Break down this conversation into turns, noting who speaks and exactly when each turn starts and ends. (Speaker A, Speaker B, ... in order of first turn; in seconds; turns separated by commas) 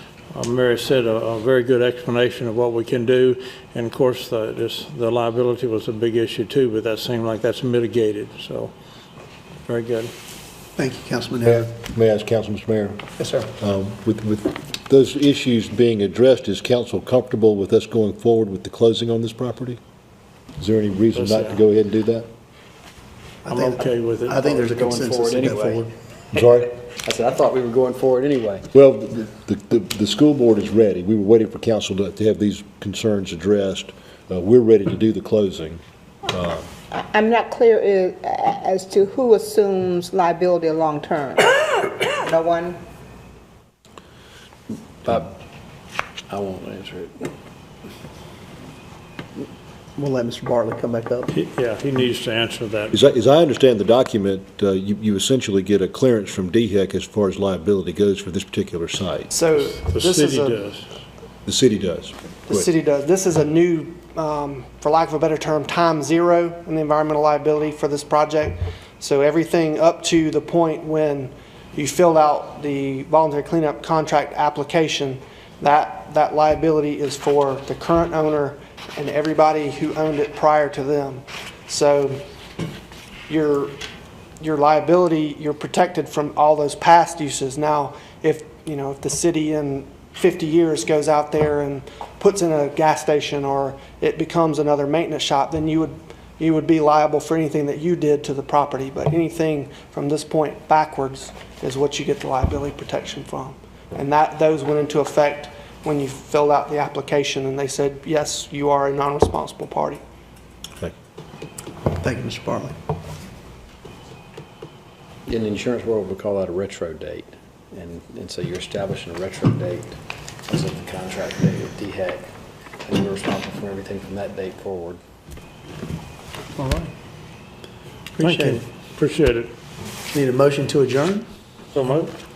Speaker A: 0.3-8.7, Speaker A: 9.7-10.1, Speaker B: 10.8-11.7, Speaker C: 11.4-19.8, Speaker B: 13.2-13.5, Speaker C: 20.6-22.3, Speaker A: 21.1-21.6, Speaker B: 23.4-25.9, Speaker A: 23.5-24.5, Speaker D: 24.4-25.9, Speaker C: 26.3-26.8, Speaker D: 27.0-28.7, Speaker C: 28.7-36.7, Speaker E: 36.9-41.5, Speaker E: 42.2-42.8, Speaker D: 45.0-45.3, Speaker D: 46.3-47.1, Speaker B: 50.0-51.3, Speaker A: 51.3-53.0, Speaker C: 52.9-59.3, Speaker F: 59.3-60.6, Speaker A: 59.6-60.9, Speaker C: 61.5-62.7, Speaker F: 62.5-82.2, Speaker F: 83.3-83.8, Speaker F: 84.4-110.0, Speaker B: 112.0-112.8, Speaker D: 115.3-122.3, Speaker D: 122.8-125.0, Speaker A: 126.6-126.9, Speaker B: 128.2-128.6, Speaker A: 128.2-129.6, Speaker B: 130.1-131.3, Speaker A: 131.7-132.1